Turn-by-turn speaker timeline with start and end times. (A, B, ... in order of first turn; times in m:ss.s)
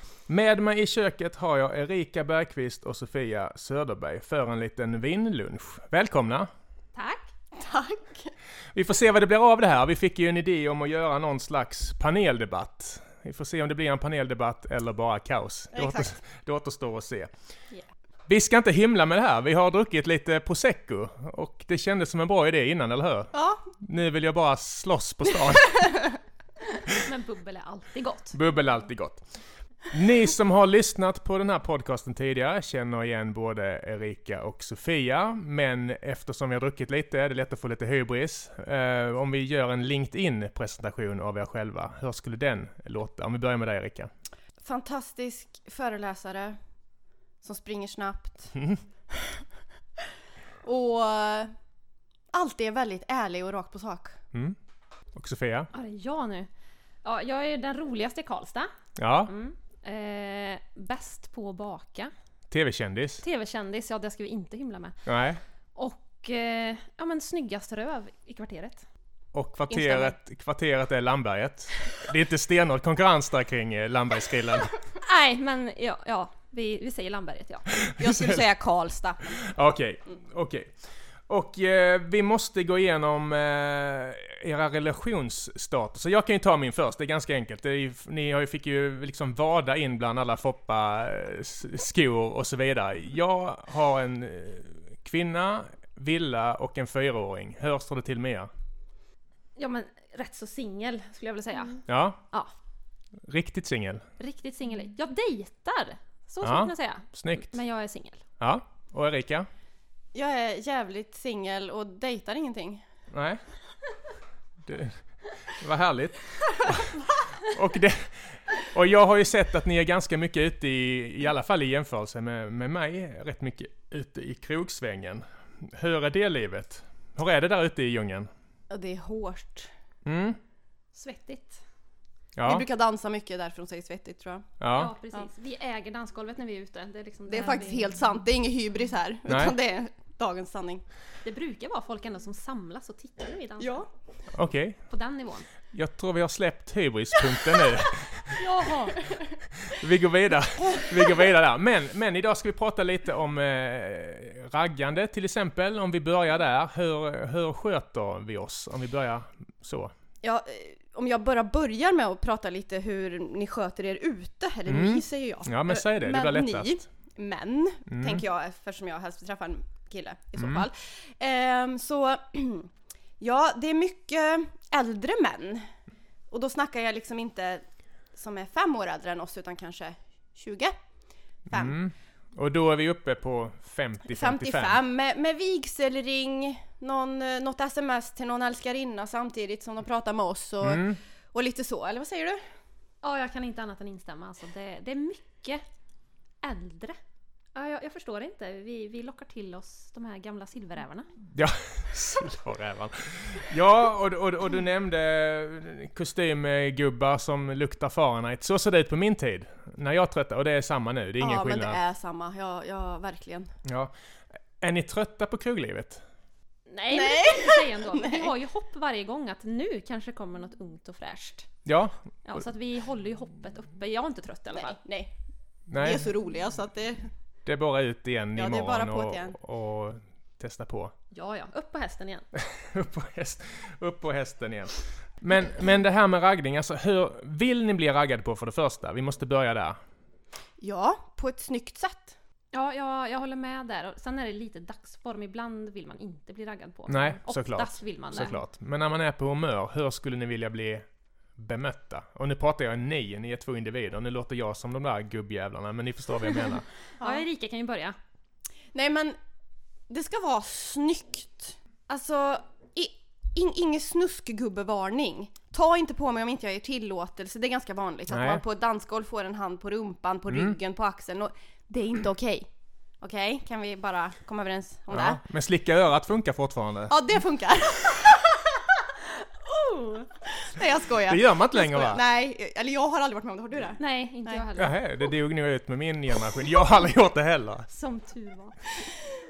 0:00.3-0:06.5 A
0:06.9-0:07.3 B
0:07.5-0:08.3 C
0:08.7-0:17.3 A
0:15.7-0:16.1 C
0:18.3-0:26.0 A
0:23.3-0:23.6 C
0:25.8-0:26.1 C
0:26.9-0:28.4 B
0:28.3-0:29.2 A
0:29.9-0:44.1 A
0:44.6-0:46.6 C
0:47.4-0:48.5 C
0:48.5-0:48.8 A
0:49.1-0:49.4 C
0:50.6-0:51.5 C
0:52.3-0:54.2 C
0:55.1-0:55.7 A
0:55.7-0:56.5 B
0:57.0-0:58.7 B
0:59.0-0:59.3 A
0:59.3-1:02.1 B
1:02.5-1:03.2 A
1:03.2-1:05.0 B
1:05.0-1:05.4 A
1:05.8-1:08.8 B
1:09.3-1:14.7 A
1:09.7-1:10.1 B
1:15.0-1:17.7 B
1:17.8-1:18.4 A
1:18.0-1:19.4 C
1:19.3-1:20.7 A
1:21.3-1:38.5 A
1:39.6-1:42.5 B
1:41.9-1:42.2 A
1:43.2-1:44.0 A
1:44.2-1:48.2 B
1:46.4-1:47.5 A
1:48.4-1:49.5 A
1:50.1-1:52.8 C
1:53.1-1:53.4 A
1:54.6-2:08.3 A
2:08.7-2:09.7 C
2:10.0-2:10.4 A
2:10.9-2:11.6 B
2:12.4-2:12.6 A
2:12.4-2:14.5 C
2:14.6-2:14.9 A
2:14.7-2:17.9 B
2:17.3-2:20.8 C
2:19.3-2:19.6 A
2:21.2-2:23.8 B
2:23.6-2:23.9 C
2:24.3-2:24.8 A
2:24.9-2:25.5 B
2:25.7-2:28.4 A
2:28.3-2:29.1 B
2:29.5-2:39.9 A
2:40.2-2:55.7 C
2:44.7-2:46.8 A
2:47.9-2:48.2 A
2:50.4-2:50.7 A
2:56.3-3:00.7 C
3:01.5-3:01.8 C
3:01.5-3:04.8 A
3:04.1-3:12.4 C
3:10.6-3:11.0 A
3:13.0-3:15.6 B
3:16.4-3:17.0 B
3:17.5-3:21.1 B
3:21.3-3:31.8 A
3:31.2-3:33.5 C
3:33.6-3:33.9 A
3:34.6-3:36.0 A
3:36.7-3:41.5 B
3:36.9-3:38.3 C
3:41.6-3:42.4 A
3:42.2-3:44.8 B
3:44.5-3:45.1 C
3:45.7-3:46.1 A
3:45.7-3:47.1 C
3:47.4-3:50.9 A
3:48.4-3:49.4 C
3:51.1-3:52.2 B
3:52.3-3:59.8 A
4:00.6-4:02.2 C
4:02.5-4:08.4 B
4:06.9-4:10.8 A
4:11.4-4:16.6 A
4:17.0-4:17.2 C
4:17.0-4:17.9 B
4:18.7-4:19.2 C
4:19.9-4:32.5 C
4:28.1-4:28.4 A
4:30.3-4:30.6 A
4:33.0-4:35.2 C
4:34.9-4:36.9 A
4:36.9-4:38.8 C
4:39.5-4:40.1 B
4:40.2-4:44.5 C
4:41.0-4:42.0 A
4:43.8-4:44.7 B
4:44.6-4:47.7 A
4:47.7-4:48.8 B